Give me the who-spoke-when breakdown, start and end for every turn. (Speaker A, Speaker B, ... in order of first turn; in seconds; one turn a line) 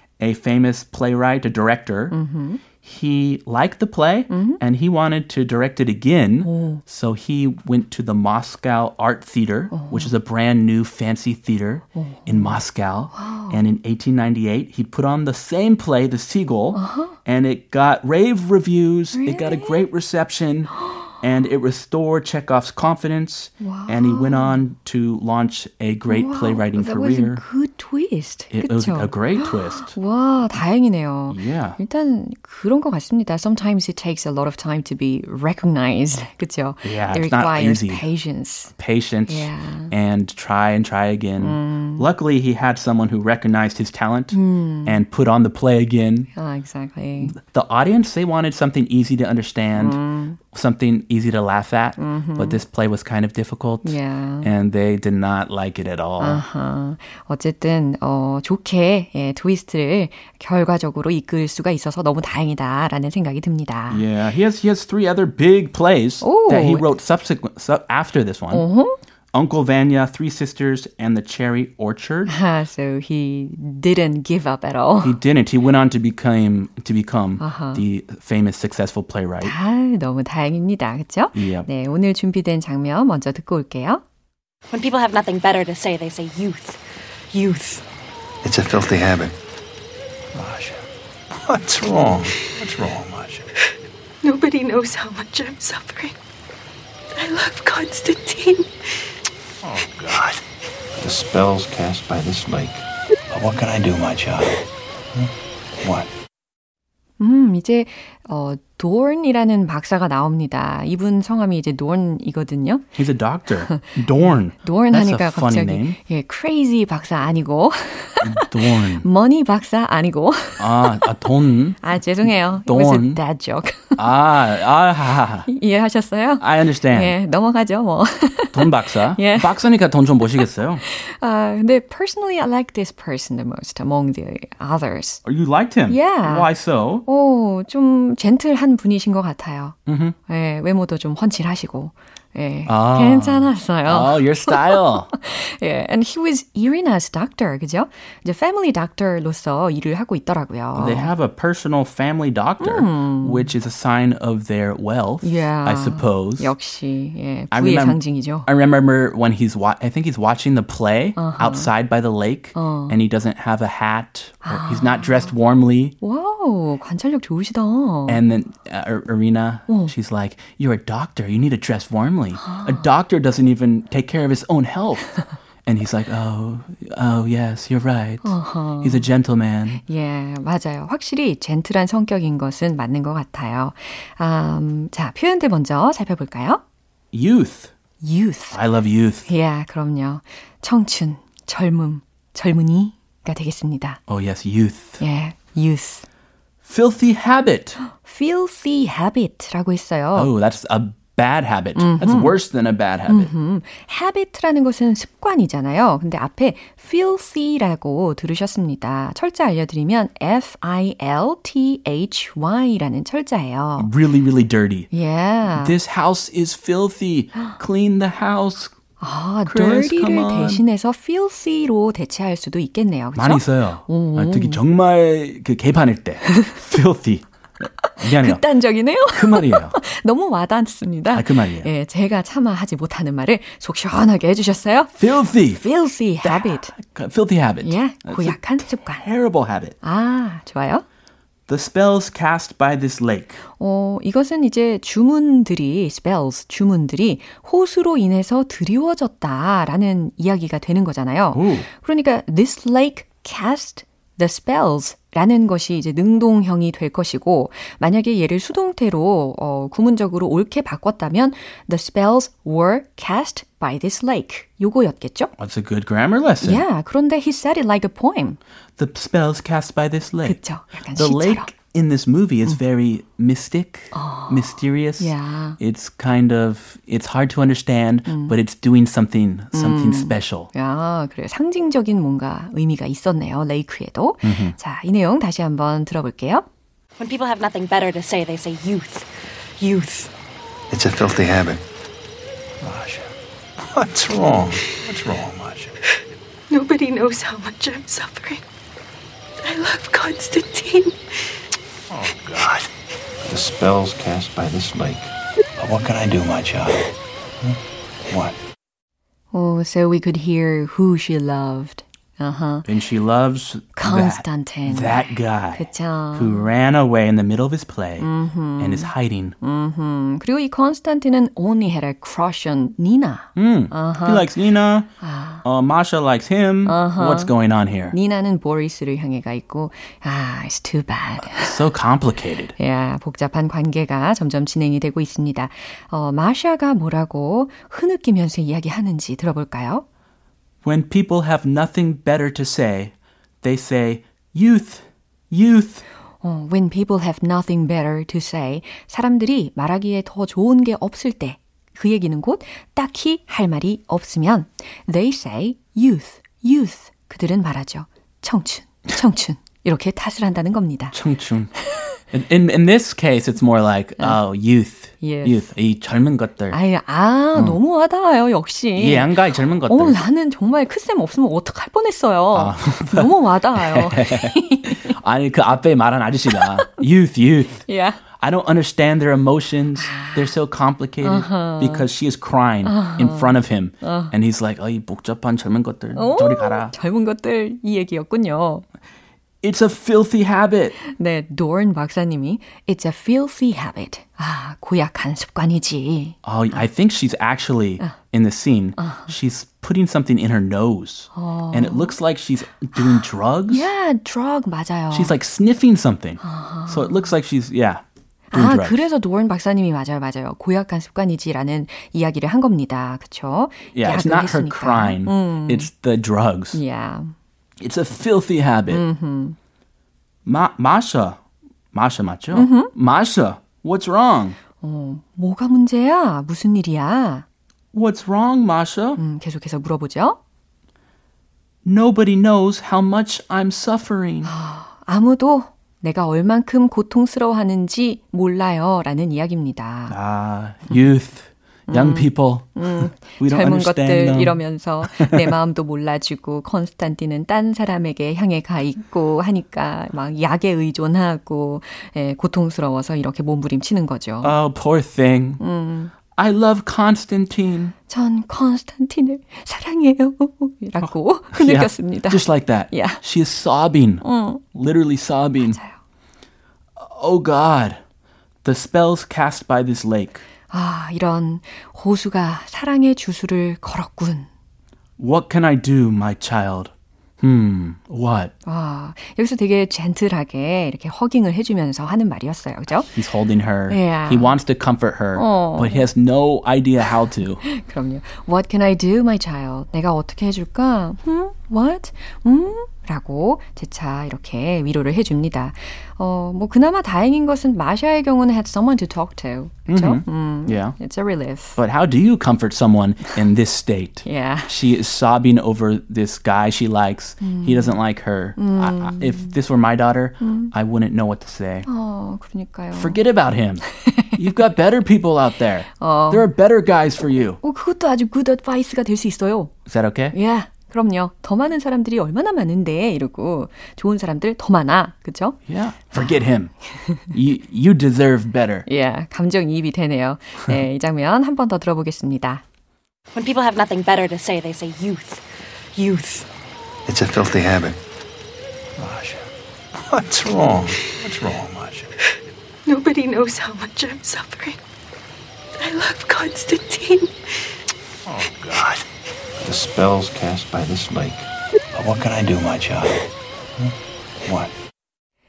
Speaker A: 0.2-2.2
Speaker B: 2.1-2.6
Speaker A: 2.8-27.4
Speaker B: 4.3-4.6
Speaker B: 6.4-6.8
Speaker B: 9.7-10.1
Speaker B: 11.9-12.6
Speaker B: 13.1-13.6
Speaker B: 16.7-17.2
Speaker B: 19.1-19.8
Speaker B: 23.6-24.6
Speaker B: 26.1-38.7
Speaker A: 28.5-30.0
Speaker A: 31.3-31.8
Speaker A: 36.8-38.1
Speaker A: 38.7-46.3
Speaker B: 39.3-39.9
Speaker B: 41.4-42.1
Speaker B: 44.3-45.0
Speaker B: 46.4-47.4
Speaker A: 47.2-50.0
Speaker B: 49.8-50.4
Speaker A: 50.5-56.4
Speaker B: 52.0-52.6
Speaker B: 53.8-54.5
Speaker B: 56.2-64.0
Speaker A: 63.9-68.7
Speaker B: 66.2-66.8
Speaker B: 68.5-69.0
Speaker A: 69.3-72.3
Speaker B: 72.3-75.2
Speaker A: 75.0-79.6
Speaker B: 77.4-77.8
Speaker B: 79.4-84.0
Speaker A: 81.3-81.7
Speaker C: 84.7-87.8
Speaker D: 88.4-89.3
Speaker D: 90.3-93.5
Speaker E: 94.2-96.2
Speaker E: 97.2-98.7
Speaker D: 99.6-100.4
Speaker D: 101.0-106.1
Speaker B: 107.2-112.8
Speaker A: 112.9-116.0
Speaker B: 113.5-113.9
Speaker B: 114.5-121.1
Speaker A: 118.2-119.1
Speaker A: 120.6-123.2
Speaker B: 121.8-124.0
Speaker A: 124.0-125.5
Speaker B: 125.5-129.6
Speaker A: 126.4-127.2
Speaker A: 128.5-130.8
Speaker B: 130.8-135.2
Speaker A: 135.2-137.1
Speaker B: 135.9-136.5
Speaker B: 137.1-139.8
Speaker A: 139.9-140.2
Speaker B: 140.3-151.1
Speaker A: 142.7-145.1
Speaker A: 150.7-156.5
Speaker B: 152.6-153.5
Speaker B: 155.2-158.5
Speaker A: 157.5-166.0
Speaker B: 161.2-161.7
Speaker B: 162.5-163.0
Speaker B: 164.4-165.3
Speaker B: 166.0-168.2
Speaker A: 168.1-179.8
Speaker B: 169.7-169.9
Speaker B: 172.4-172.9
Speaker B: 178.2-179.1
Speaker B: 179.8-186.6
Speaker A: 187.1-187.7
Speaker B: 188.0-188.6
Speaker A: 188.5-189.3
Speaker B: 189.3-194.0
Speaker A: 194.1-195.0
Speaker B: 195.0-196.1
Speaker A: 196.7-197.8
Speaker B: 197.9-200.3
Speaker A: 200.1-203.3
Speaker B: 201.8-202.3
Speaker B: 203.1-213.9
Speaker A: 213.8-214.9
Speaker B: 214.9-215.8
Speaker A: 215.5-218.8
Speaker B: 219.0-224.6
Speaker A: 219.5-220.6
Speaker A: 223.2-228.4
Speaker B: 226.2-226.7
Speaker B: 227.8-236.8
Speaker A: 229.1-229.8
Speaker A: 231.1-231.7
Speaker A: 235.0-235.7
Speaker A: 236.2-239.8
Speaker B: 237.6-239.1
Speaker B: 239.8-240.8
Speaker A: 241.5-243.4
Speaker B: 243.6-265.3
Speaker A: 251.3-251.7
Speaker A: 265.4-266.6
Speaker B: 266.4-268.4
Speaker A: 268.8-270.4
Speaker B: 270.2-271.5
Speaker A: 270.9-280.5
Speaker B: 273.9-275.6
Speaker B: 278.1-278.4
Speaker B: 279.5-286.5
Speaker A: 284.2-284.6
Speaker C: 287.0-290.1
Speaker D: 290.7-291.6
Speaker D: 292.6-295.8
Speaker E: 296.5-298.4
Speaker E: 299.4-301.0
Speaker D: 301.9-302.7
Speaker D: 303.2-308.4
Speaker B: 309.3-312.7
Speaker A: 312.7-319.4
Speaker B: 313.8-316.5
Speaker B: 318.0-318.9
Speaker B: 319.4-324.3
Speaker A: 323.4-328.0
Speaker B: 325.0-325.4
Speaker B: 326.7-327.3
Speaker B: 327.9-331.6
Speaker A: 331.3-332.5
Speaker B: 332.6-339.9
Speaker A: 340.6-345.9
Speaker B: 346.2-360.9
Speaker A: 360.9-361.5
Speaker A: 362.1-366.6
Speaker B: 365.0-365.5
Speaker B: 366.5-375.0
Speaker A: 367.3-367.6
Speaker A: 368.8-370.0
Speaker A: 372.3-377.7
Speaker B: 376.3-376.8
Speaker B: 377.7-378.0
Speaker A: 378.2-386.7
Speaker B: 379.8-380.3
Speaker B: 381.0-381.9
Speaker B: 382.6-384.1
Speaker B: 385.9-388.6
Speaker A: 389.4-390.8
Speaker B: 390.8-396.6
Speaker A: 396.2-403.7
Speaker B: 398.8-399.1
Speaker B: 401.1-402.0
Speaker B: 402.8-405.1
Speaker A: 404.9-408.9
Speaker B: 406.2-407.1
Speaker B: 408.3-415.7
Speaker A: 413.7-416.6
Speaker B: 416.5-417.1
Speaker A: 417.6-418.8
Speaker B: 418.7-419.4
Speaker A: 420.2-421.2
Speaker A: 421.7-424.4
Speaker B: 422.3-422.7
Speaker B: 424.6-427.2
Speaker A: 427.7-429.0
Speaker B: 429.0-430.2
Speaker A: 431.6-434.3
Speaker B: 434.2-440.0
Speaker A: 439.9-445.3
Speaker B: 441.7-454.3
Speaker A: 454.2-455.4
Speaker B: 455.4-455.9
Speaker A: 456.1-457.7
Speaker B: 457.9-463.0
Speaker A: 460.8-465.6
Speaker B: 464.0-464.4
Speaker B: 465.4-465.8
Speaker A: 466.8-467.8
Speaker A: 468.4-470.2
Speaker B: 470.5-474.3
Speaker A: 475.0-478.3
Speaker B: 478.5-483.0
Speaker A: 482.9-487.4
Speaker B: 483.7-484.4
Speaker B: 485.2-485.9
Speaker B: 487.4-501.6
Speaker A: 499.7-500.8
Speaker A: 501.6-511.7
Speaker B: 504.1-504.5
Speaker B: 507.2-507.8
Speaker B: 508.4-509.3
Speaker B: 510.2-510.5
Speaker B: 511.7-513.0
Speaker A: 512.7-517.4
Speaker B: 513.8-514.2
Speaker B: 515.8-516.3
Speaker B: 517.4-519.5
Speaker A: 519.7-520.2
Speaker B: 520.1-525.4
Speaker A: 525.5-528.7
Speaker B: 525.9-526.2
Speaker B: 526.7-527.1
Speaker B: 528.7-532.4
Speaker C: 533.1-536.3
Speaker D: 536.9-537.8
Speaker D: 538.8-541.9
Speaker E: 542.7-544.6
Speaker E: 545.6-547.1
Speaker D: 548.0-548.8
Speaker D: 549.4-554.5